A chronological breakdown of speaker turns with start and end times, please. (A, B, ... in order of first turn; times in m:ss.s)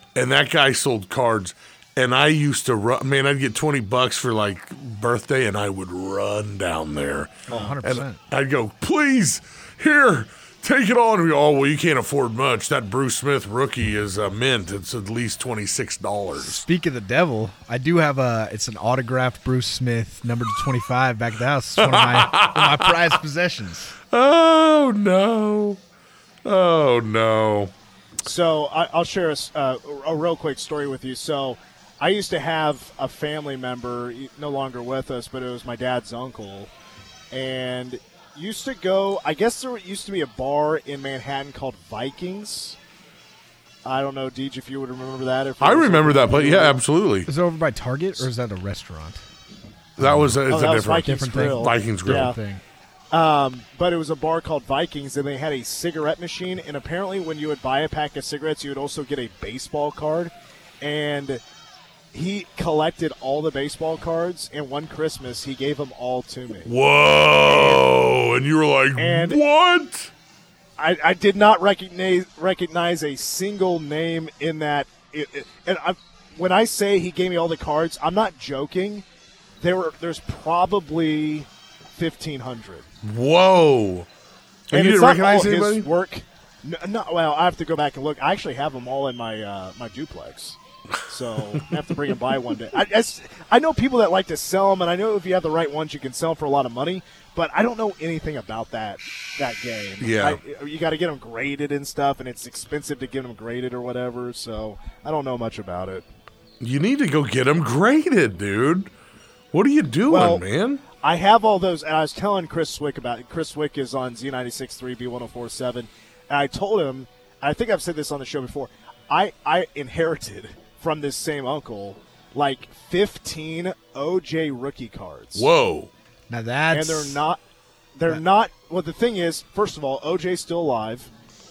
0:00.2-0:16.6 A
0:07.5-0:07.8 B
0:07.5-0:08.2 C
0:16.4-0:24.0 C
0:21.8-0:23.2 A
0:24.1-0:25.8 A
0:26.4-0:27.7 A
0:28.2-0:36.7 B
0:37.3-0:42.8 B
0:43.8-0:46.8 B
0:45.6-0:47.3 A
0:47.3-0:49.2 C
0:50.0-0:52.4 A
0:50.0-0:52.6 C
0:50.5-0:52.4 B
0:53.1-1:01.4 B
1:02.1-1:06.7 B
1:06.7-1:10.1 A
1:07.4-1:07.9 B
1:09.0-1:09.4 B
1:10.8-1:19.0 B
1:19.6-1:22.9 B
1:23.0-1:24.1 A
1:24.7-1:25.9 A
1:24.7-1:46.1 B
1:40.0-1:40.4 A
1:46.6-1:48.9 A
1:49.5-1:50.8 A
1:50.1-1:50.4 B
1:51.0-2:05.5 B
2:05.4-2:05.9 A
2:06.3-2:07.2 C
2:06.7-2:07.4 B
2:08.0-2:11.1 B